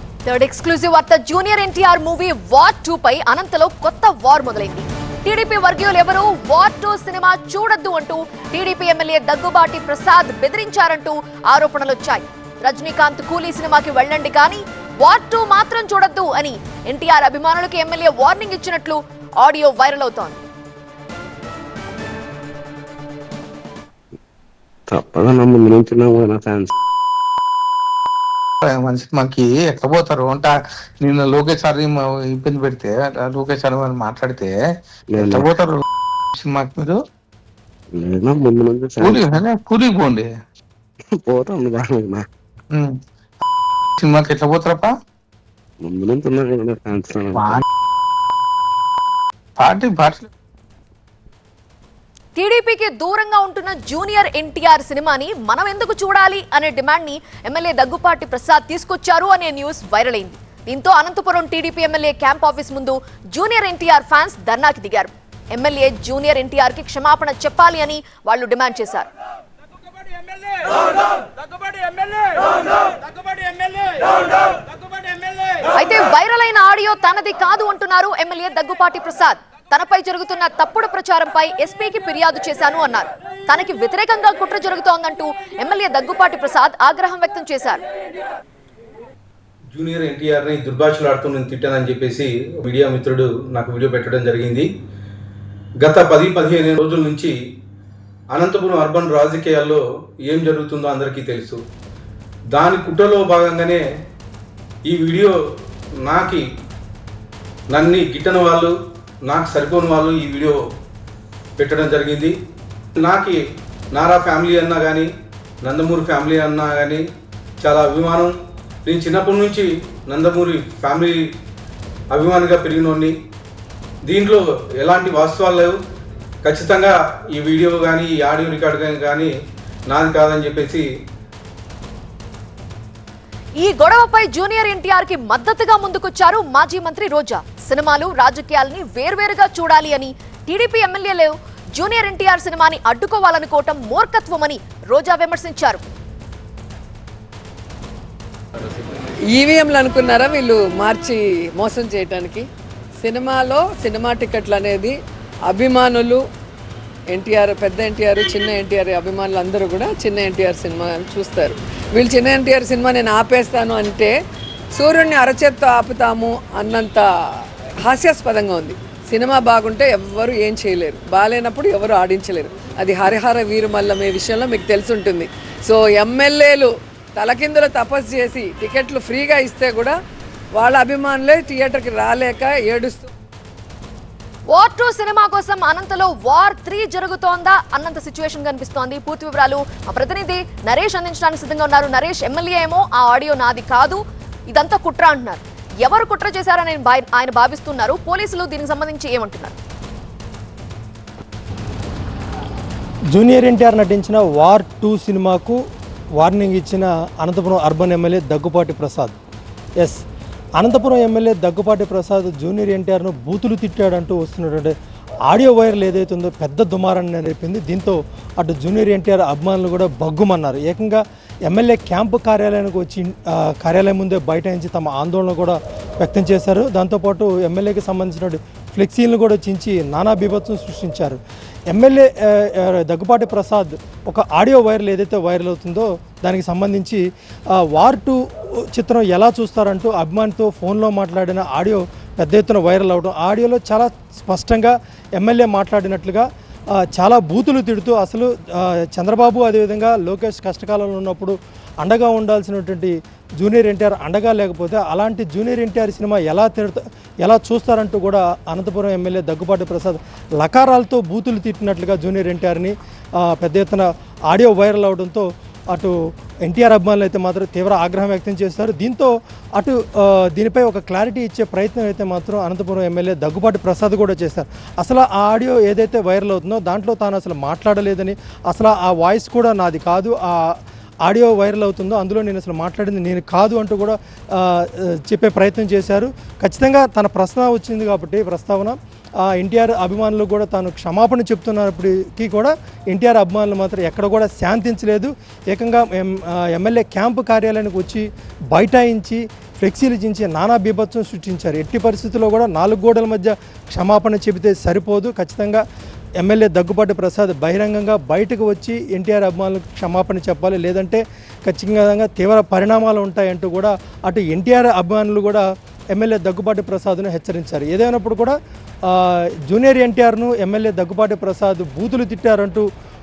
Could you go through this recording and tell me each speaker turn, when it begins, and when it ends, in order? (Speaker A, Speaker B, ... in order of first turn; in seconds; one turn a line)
Speaker A: 0.2-20.4
Speaker B: 24.9-26.7
Speaker C: 28.6-34.5
Speaker C: 35.1-35.8
Speaker B: 35.2-35.4
Speaker C: 36.4-37.0
Speaker B: 38.0-39.3
Speaker C: 39.0-40.3
Speaker B: 41.2-42.2
Speaker C: 44.0-44.9
Speaker B: 45.8-47.6
Speaker C: 47.3-47.6
Speaker C: 49.6-50.3
Speaker A: 52.4-69.1
Speaker A: 75.7-87.8
Speaker D: 89.7-94.7
Speaker D: 95.8-97.3
Speaker D: 98.3-101.6
Speaker D: 102.5-103.8
Speaker D: 104.9-105.3
Speaker D: 106.0-106.4
Speaker D: 107.7-108.7
Speaker D: 109.3-110.6
Speaker D: 111.6-112.3
Speaker D: 113.0-113.4
Speaker D: 113.9-115.1
Speaker D: 115.6-117.0
Speaker D: 117.6-118.3
Speaker D: 118.8-121.2
Speaker D: 122.1-123.1
Speaker D: 124.1-125.8
Speaker D: 126.4-129.3
Speaker D: 129.9-130.8
Speaker A: 133.6-145.8
Speaker E: 149.3-152.4
Speaker E: 153.0-154.9
Speaker E: 155.5-156.2
Speaker E: 157.1-164.1
Speaker E: 164.7-167.1
Speaker E: 167.8-179.9
Speaker E: 180.6-183.1
Speaker A: 184.5-199.6
Speaker F: 203.1-205.6
Speaker F: 206.2-209.2
Speaker F: 210.6-214.7
Speaker F: 215.3-231.2
Speaker F: 231.7-237.0
Speaker F: 237.6-238.2
Speaker F: 238.7-246.2
Speaker F: 246.8-280.5
Speaker F: 281.0-305.6
Speaker F: 306.2-318.3
Speaker F: 318.9-322.6